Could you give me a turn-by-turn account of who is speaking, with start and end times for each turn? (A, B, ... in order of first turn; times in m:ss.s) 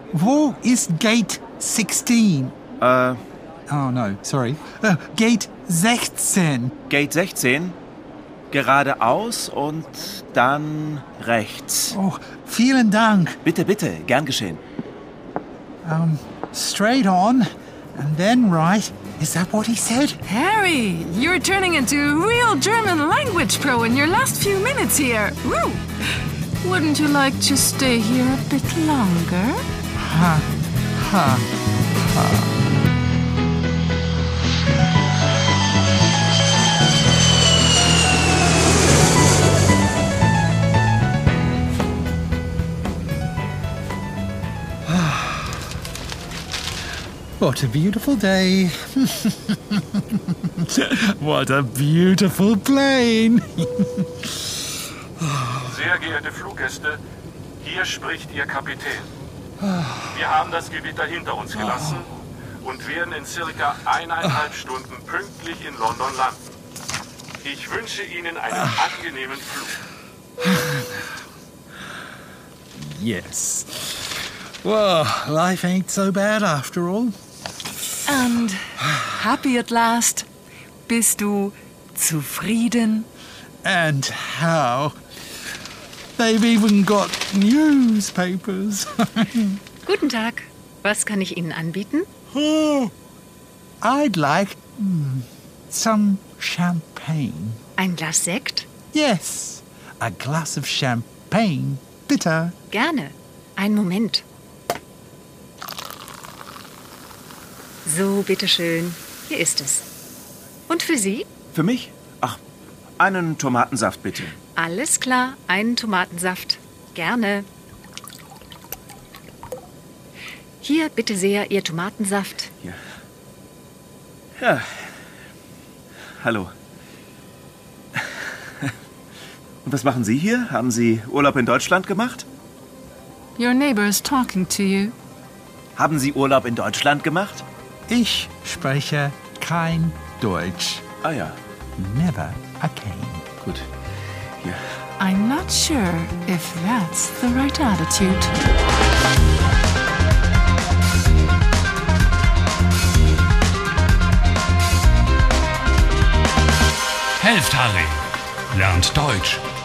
0:00.1-0:02.5 A
0:02.8-0:03.2 B
0:03.7-0:06.7 A
0:06.9-0:07.8 B
0:08.5-0:12.0 B
0:11.9-0:13.4 A
0:13.4-0:14.6 B
0:15.8-0:20.2 A
0:20.3-0:25.8 C
0:26.6-0:29.6 C
0:30.0-0:31.5 A
0:32.1-0:32.6 A
0:47.4-0:54.3 A
0:55.2-0:55.7 A
0:55.7-0:57.0 D
0:57.6-0:59.1 D
1:00.1-1:02.1 D
1:01.5-1:02.0 A
1:02.6-1:06.6 D
1:07.4-1:09.7 D
1:08.5-1:09.0 A
1:10.4-1:10.9 A
1:12.7-1:17.1 A
1:18.1-1:20.2 C
1:20.9-1:23.1 C
1:23.6-1:25.0 A
1:26.2-1:29.6 A
1:29.8-1:32.1 E
1:32.3-1:32.9 A
1:33.8-1:37.6 A
1:37.8-1:38.7 E
1:38.9-1:42.6 A
1:42.7-1:44.2 E
1:47.8-1:49.8 E
1:50.7-1:51.3 E
1:51.5-1:52.4 B
1:53.0-1:54.4 B
1:54.6-1:57.5 E
2:00.6-2:02.5 E
2:04.4-2:04.7 B
2:06.2-2:06.5 B
2:09.6-2:12.2 B
2:13.4-2:14.9 C
2:15.8-2:17.4 B
2:17.9-2:20.8 A
2:21.0-2:21.4 B
2:21.8-2:23.3 A
2:25.0-2:28.4 C
2:37.2-2:39.5 F